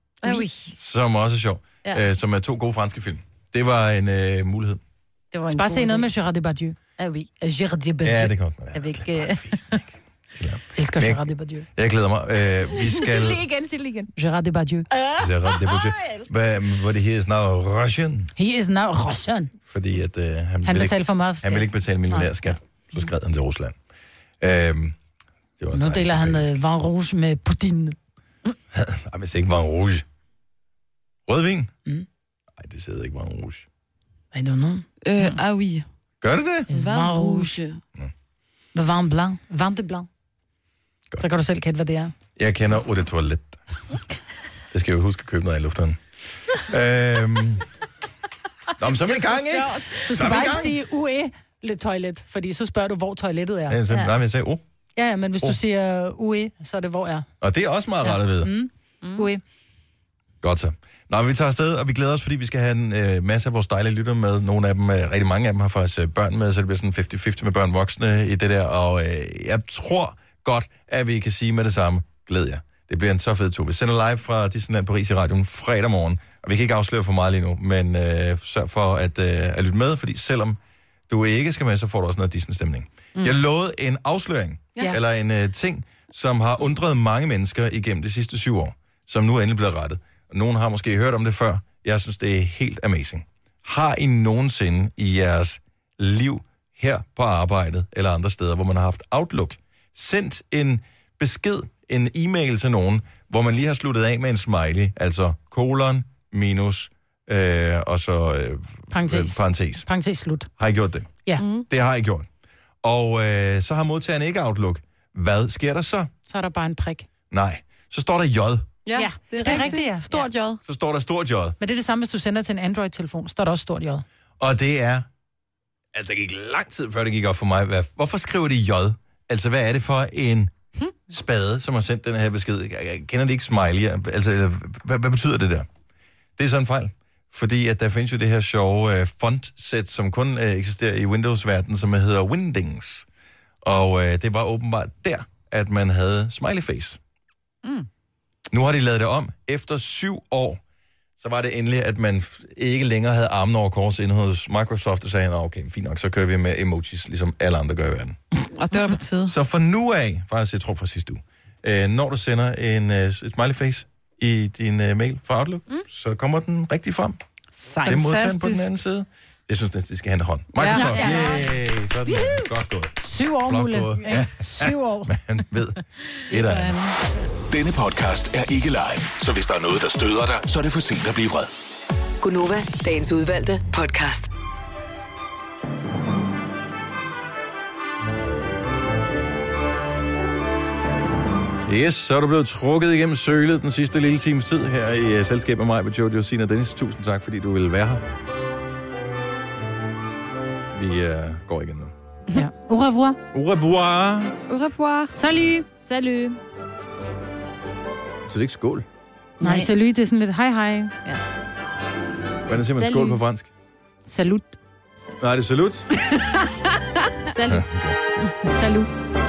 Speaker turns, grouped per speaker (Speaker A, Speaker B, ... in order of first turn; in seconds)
Speaker A: 0.2-0.7, 5.3-6.1, 7.0-7.4, 8.7-9.8, 12.6-14.1, 14.9-16.3, 119.0-120.3, 170.7-171.5, 205.8-206.4, 209.4-209.7, 212.7-213.2, 217.2-217.7
Speaker B: 0.2-0.5, 5.5-6.8, 7.4-8.3, 10.7-11.7, 14.2-14.9, 18.4-19.5, 20.6-22.3, 25.7-27.9, 34.3-34.8, 36.7-37.5, 38.7-40.1, 41.2-42.1, 49.0-53.8, 55.0-57.2, 58.0-59.4, 108.9-110.5, 116.3-117.0, 119.0-120.1, 121.6-124.0, 167.6-167.9, 170.7-171.5, 172.1-175.1, 202.3-203.2, 205.1-205.7, 209.4-210.9, 214.0-214.5, 218.5-218.9
Speaker C: 0.7-4.8, 8.0-9.8, 10.3-11.2, 11.8-13.4, 15.2-18.3, 19.7-23.8, 24.4-24.9, 25.6-26.6, 28.7-30.0, 31.3-31.7, 32.5-33.6, 36.2-36.7, 42.4-43.6, 44.7-47.6, 48.8-50.8, 53.7-54.6, 57.4-58.5, 60.4-80.6, 81.1-109.8, 110.6-112.3, 112.8-116.1, 117.3-118.7, 120.6-121.6, 124.4-125.1, 125.9-130.5, 131.1-135.7, 136.4-143.1, 143.6-147.0, 148.5-150.6, 151.2-158.2, 159.2-167.2, 167.8-176.8, 191.7-198.0, 200.7-201.9, 203.3-204.4, 208.3-208.9, 212.5-213.5, 215.2-215.9, 217.5-218.2
Speaker D: 35.0-35.8, 36.7-37.8, 111.4-111.7, 118.8-120.6, 158.5-159.3, 167.8-168.7, 170.6-171.0, 176.3-177.0, 204.5-205.1
Speaker E: 177.5-181.5
Speaker F: 182.2-184.3